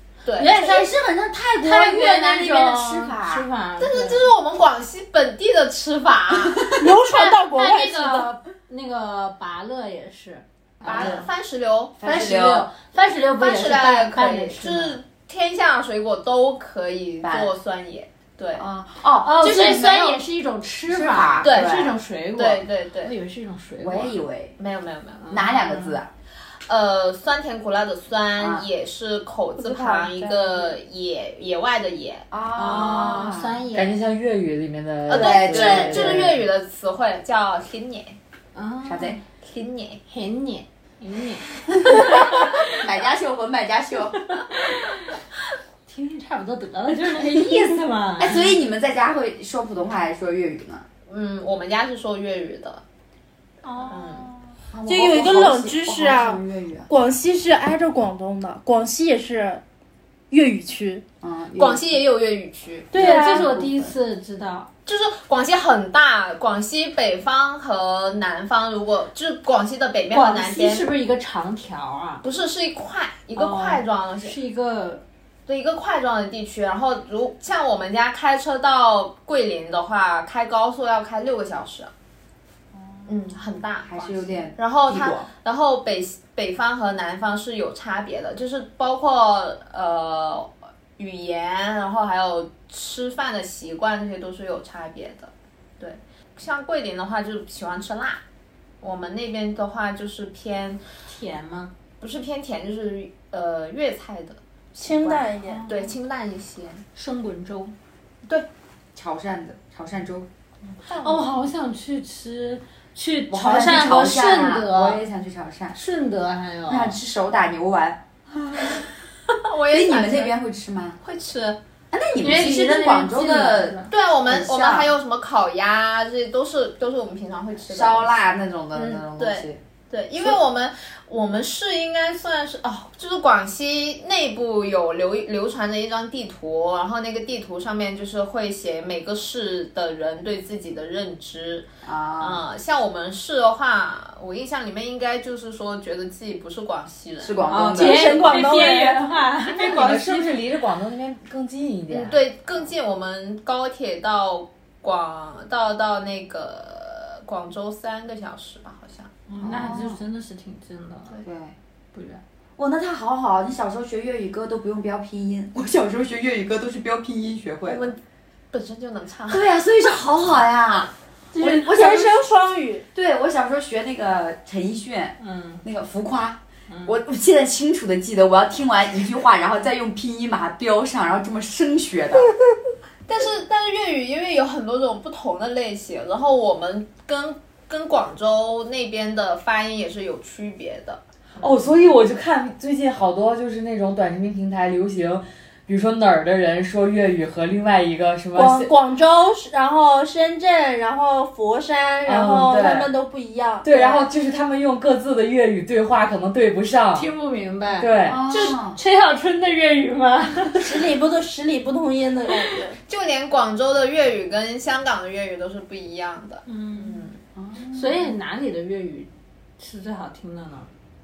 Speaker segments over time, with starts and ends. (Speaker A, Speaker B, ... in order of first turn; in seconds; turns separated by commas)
Speaker A: 0.2-0.9, Speaker B: 0.4-4.3, Speaker C: 0.6-3.5, Speaker A: 3.8-6.8, Speaker D: 6.8-8.3, Speaker B: 7.0-11.2, Speaker C: 10.8-11.3, Speaker A: 10.8-12.1, Speaker C: 12.0-12.7, Speaker B: 12.0-15.0, Speaker A: 13.4-18.6, Speaker C: 17.2-17.5, Speaker C: 18.6-20.1, Speaker B: 19.2-24.1, Speaker C: 20.9-21.9, Speaker A: 21.4-23.1, Speaker C: 23.8-24.6, Speaker A: 24.6-25.3, Speaker B: 25.3-25.9, Speaker C: 25.3-26.1, Speaker A: 26.7-33.1, Speaker C: 28.4-28.6, Speaker D: 29.6-30.8, Speaker C: 32.3-33.7, Speaker B: 32.5-34.0, Speaker E: 33.7-36.4, Speaker A: 35.1-38.2, Speaker C: 35.1-36.3, Speaker B: 38.5-39.2, Speaker C: 38.8-39.2, Speaker A: 39.4-40.0, Speaker B: 40.1-42.7, Speaker C: 42.1-44.2, Speaker B: 44.2-45.2, Speaker B: 45.9-48.5, Speaker C: 48.2-50.8, Speaker A: 51.1-52.8, Speaker B: 53.6-54.4, Speaker A: 53.9-54.2, Speaker C: 54.7-56.9, Speaker D: 54.9-59.6, Speaker D: 60.3-61.0, Speaker C: 61.2-62.0, Speaker A: 61.5-63.2, Speaker B: 62.9-64.7, Speaker C: 62.9-63.9, Speaker D: 63.0-63.5, Speaker A: 64.9-70.9, Speaker B: 70.1-72.2, Speaker A: 72.2-74.4, Speaker B: 73.3-75.0, Speaker A: 75.5-81.9, Speaker A: 83.1-98.2, Speaker C: 83.9-85.3, Speaker A: 98.8-100.8, Speaker B: 101.0-101.7, Speaker A: 102.0-106.8, Speaker D: 104.8-105.7, Speaker B: 105.5-105.9, Speaker B: 106.9-107.7, Speaker C: 108.9-110.3, Speaker A: 110.8-111.2, Speaker B: 110.9-115.0, Speaker C: 113.3-115.8, Speaker B: 115.7-117.0, Speaker C: 116.7-118.9, Speaker A: 119.3-120.3, Speaker C: 119.7-121.0, Speaker A: 121.0-121.6, Speaker C: 121.9-124.9, Speaker B: 122.2-123.9, Speaker A: 123.9-128.2, Speaker C: 127.6-129.6, Speaker A: 128.7-141.7, Speaker C: 141.8-142.4, Speaker A: 142.2-147.5, Speaker C: 147.2-148.4, Speaker B: 147.5-150.4, Speaker D: 147.7-149.1, Speaker E: 149.4-152.2, Speaker A: 151.9-159.7, Speaker B: 159.3-161.2, Speaker C: 159.4-160.0, Speaker C: 161.2-161.6, Speaker B: 161.9-162.2, Speaker C: 162.6-167.9, Speaker A: 167.7-168.0, Speaker A: 168.5-169.5, Speaker C: 169.3-172.2, Speaker D: 171.3-172.9, Speaker C: 172.9-182.3, Speaker B: 175.2-175.6, Speaker B: 176.7-176.9, Speaker A: 183.1-191.6, Speaker E: 191.4-198.7, Speaker D: 198.3-204.1, Speaker E: 202.1-202.9, Speaker E: 203.6-207.1, Speaker B: 206.9-210.7, Speaker E: 207.8-208.2, Speaker C: 208.0-208.8, Speaker D: 210.6-212.8, Speaker A: 212.9-217.2, Speaker B: 216.4-217.1, Speaker C: 217.3-218.0, Speaker B: 217.7-220.7